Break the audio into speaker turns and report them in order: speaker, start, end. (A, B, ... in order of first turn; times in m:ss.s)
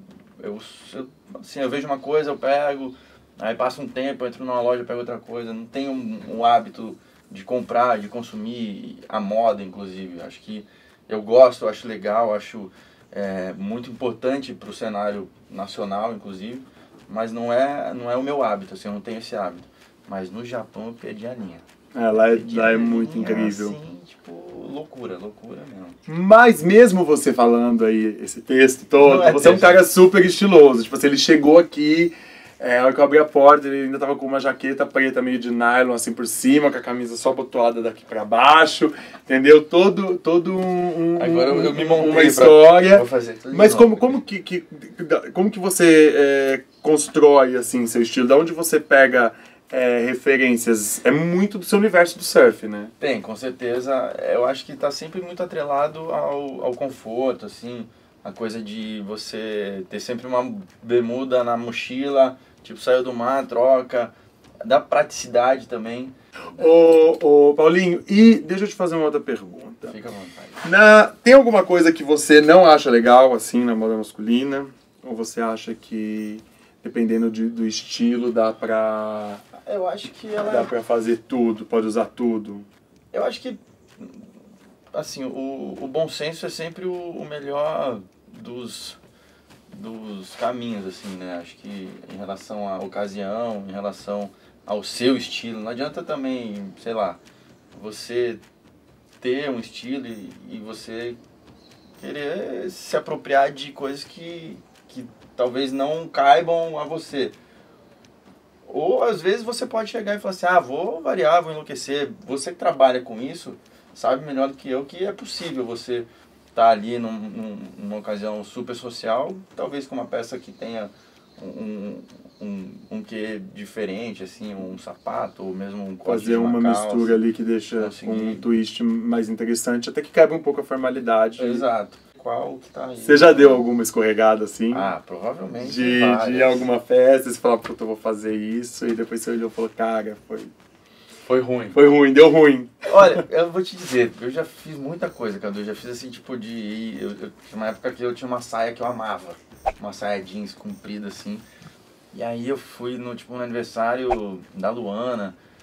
0:00.4-0:26.0 A
0:21.9-0:23.8 B
0:26.1-0:52.9 B
0:29.0-0:29.8 A
0:41.2-0:44.2 A
0:53.0-1:06.8 A
1:06.6-1:10.0 B
1:09.9-1:10.6 A
1:10.6-1:19.4 B
1:19.6-1:20.7 A
1:20.4-1:22.7 B
1:23.1-1:24.2 A
1:24.9-1:29.0 A
1:29.7-1:37.2 A
1:37.7-1:38.4 A
1:39.2-1:41.2 A
1:42.0-1:47.4 A
1:48.6-2:07.2 A
2:06.0-2:11.6 B
2:07.8-2:08.5 A
2:11.4-2:13.6 A
2:13.0-2:14.9 B
2:14.7-2:16.7 A
2:15.6-2:20.5 B
2:21.2-2:21.8 A
2:21.7-2:23.2 B
2:22.9-2:31.4 A
2:32.1-2:35.4 A